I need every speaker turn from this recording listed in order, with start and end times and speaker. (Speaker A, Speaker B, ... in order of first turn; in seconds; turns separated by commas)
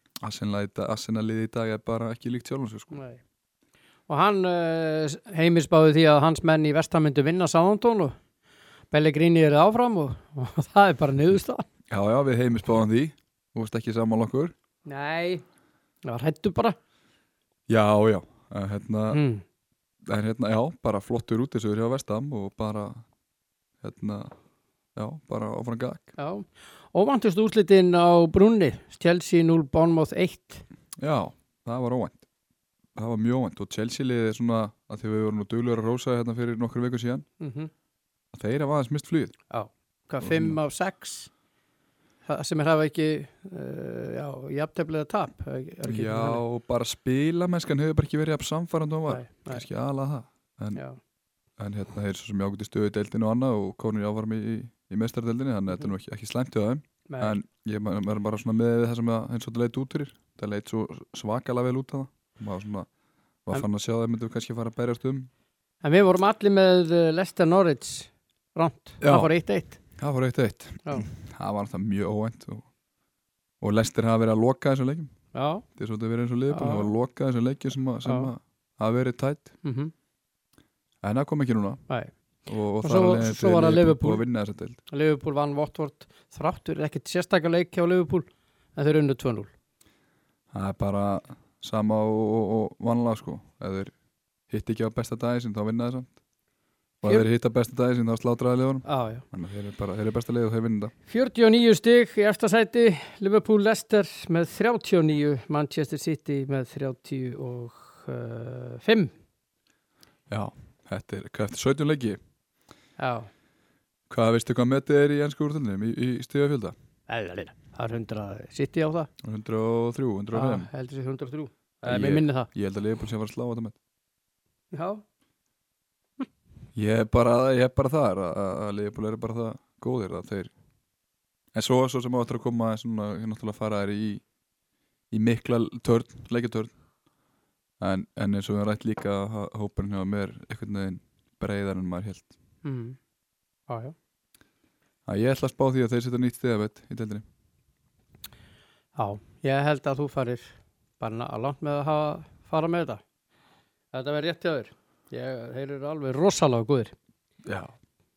Speaker A: 0.2-3.0, Speaker B: 2.9-3.2, Speaker B: 4.1-8.2, Speaker B: 8.9-11.7, Speaker A: 11.9-14.5, Speaker B: 14.9-15.4, Speaker B: 16.1-16.8, Speaker A: 17.7-19.2, Speaker B: 19.1-19.4, Speaker A: 20.1-23.0, Speaker A: 23.8-24.3, Speaker A: 25.0-26.1, Speaker B: 26.2-30.6, Speaker A: 31.0-32.2, Speaker A: 33.0-37.3, Speaker B: 37.4-37.7, Speaker A: 38.3-39.4, Speaker B: 39.5-41.3, Speaker A: 40.2-40.6, Speaker B: 42.3-46.4, Speaker A: 45.8-50.8, Speaker B: 49.1-49.6, Speaker A: 51.6-62.9, Speaker B: 57.1-57.4, Speaker A: 63.5-65.3, Speaker B: 65.8-69.8, Speaker A: 69.0-69.3, Speaker A: 69.9-72.7, Speaker A: 73.6-79.5, Speaker B: 75.3-75.7, Speaker B: 76.5-76.9, Speaker B: 78.0-78.3, Speaker B: 79.6-79.9, Speaker A: 81.0-81.8, Speaker A: 82.5-84.8, Speaker B: 82.8-84.2, Speaker B: 84.9-89.5, Speaker A: 90.5-93.9, Speaker A: 94.5-96.1, Speaker A: 97.0-100.9, Speaker B: 98.9-99.2, Speaker B: 101.1-109.1, Speaker A: 110.3-112.2, Speaker B: 113.0-113.3, Speaker A: 114.1-116.8, Speaker B: 117.1-119.1, Speaker A: 119.2-120.7, Speaker B: 120.3-122.5, Speaker A: 121.8-123.8, Speaker B: 124.7-125.0, Speaker A: 126.8-130.5, Speaker A: 131.5-134.2, Speaker A: 135.1-136.7, Speaker A: 137.8-142.3, Speaker B: 142.6-143.0, Speaker B: 143.7-143.9, Speaker A: 145.1-147.2, Speaker B: 149.0-153.0, Speaker B: 153.9-156.9, Speaker A: 157.5-157.7